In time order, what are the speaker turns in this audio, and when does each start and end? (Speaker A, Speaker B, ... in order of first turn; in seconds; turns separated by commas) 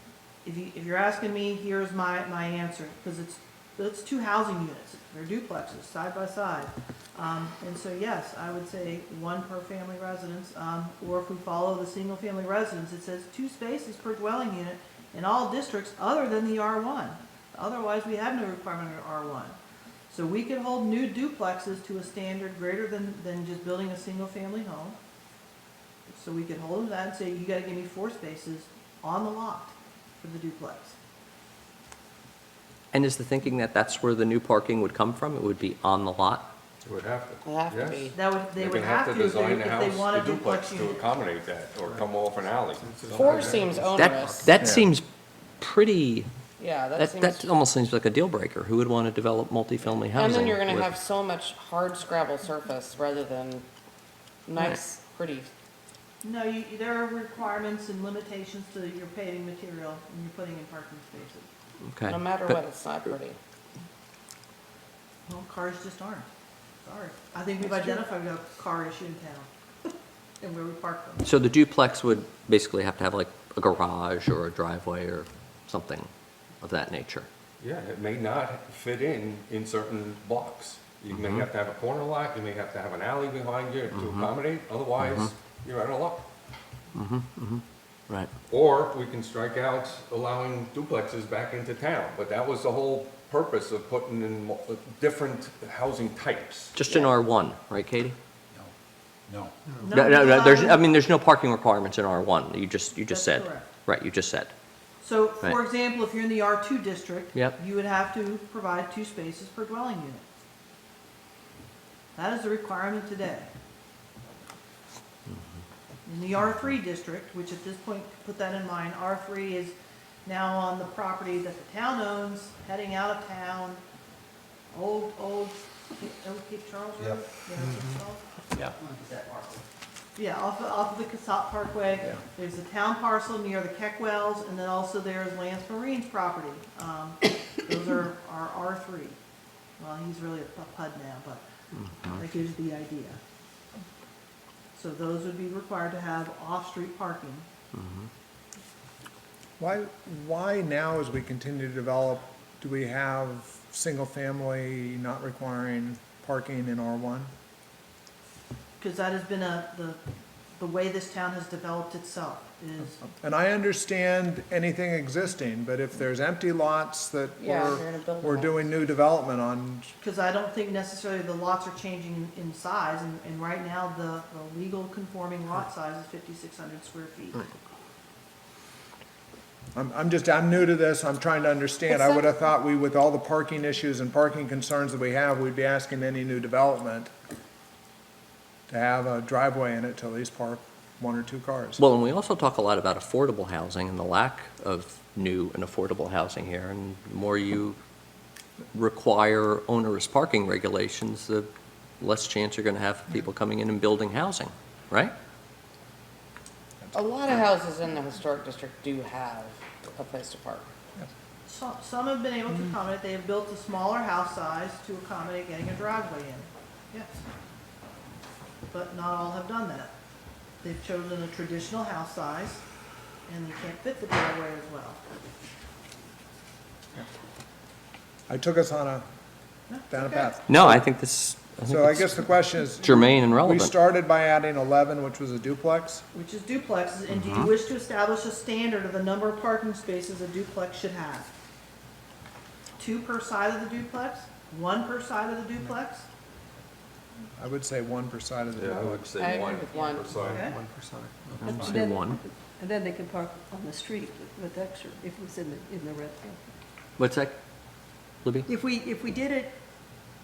Speaker A: 0.4-19.6, Speaker A: 20.1-25.0, Speaker A: 26.1-31.0, Speaker B: 32.9-36.5, Speaker C: 36.8-43.6, Speaker D: 37.4-38.1, Speaker A: 38.1-41.0, Speaker E: 41.8-42.1, Speaker E: 42.7-44.6, Speaker D: 43.1-44.5, Speaker B: 43.9-45.0, Speaker F: 44.6-44.9, Speaker B: 45.6-46.3, Speaker D: 46.6-47.5, Speaker B: 47.0-50.9, Speaker D: 50.1-53.6, Speaker D: 54.5-55.5, Speaker A: 56.2-61.5, Speaker B: 61.8-62.6, Speaker D: 62.1-63.4, Speaker A: 65.3-66.3, Speaker A: 66.8-69.5, Speaker G: 67.6-68.0, Speaker A: 70.4-71.3, Speaker B: 71.2-76.1, Speaker B: 76.6-77.3, Speaker C: 77.6-86.2, Speaker B: 81.1-81.5, Speaker B: 83.9-84.3, Speaker B: 85.0-85.3, Speaker B: 86.9-88.3, Speaker C: 88.5-96.7, Speaker B: 96.7-98.2, Speaker E: 99.3-99.9, Speaker A: 99.8-100.8, Speaker B: 99.9-104.5, Speaker A: 103.1-103.7, Speaker A: 105.0-110.2, Speaker A: 112.1-113.5, Speaker A: 116.0-123.8, Speaker A: 124.7-128.2, Speaker A: 130.2-139.2, Speaker A: 139.8-141.4, Speaker A: 142.0-143.2, Speaker A: 144.7-147.4, Speaker B: 147.7-148.1, Speaker F: 149.6-157.3, Speaker A: 158.8-160.0, Speaker A: 160.6-163.0, Speaker F: 163.0-169.9, Speaker D: 167.4-168.6, Speaker A: 170.0-177.5, Speaker F: 179.7-187.1, Speaker F: 188.7-191.8, Speaker B: 191.8-197.8, Speaker B: 198.7-201.5, Speaker B: 202.0-205.1, Speaker D: 206.9-210.7, Speaker A: 211.4-217.2, Speaker A: 218.7-219.9, Speaker A: 220.6-222.6, Speaker A: 223.3-225.0, Speaker F: 228.3-229.0, Speaker A: 229.7-230.3, Speaker F: 229.9-230.8, Speaker B: 230.5-233.7, Speaker F: 231.7-236.0, Speaker A: 236.1-241.3, Speaker B: 237.1-237.5, Speaker A: 242.8-246.1, Speaker F: 247.4-249.1, Speaker C: 248.5-250.5, Speaker D: 249.2-250.2, Speaker E: 250.2-251.8, Speaker A: 250.2-250.6, Speaker G: 251.4-256.5, Speaker B: 251.4-252.2, Speaker B: 257.0-257.4, Speaker G: 258.4-259.6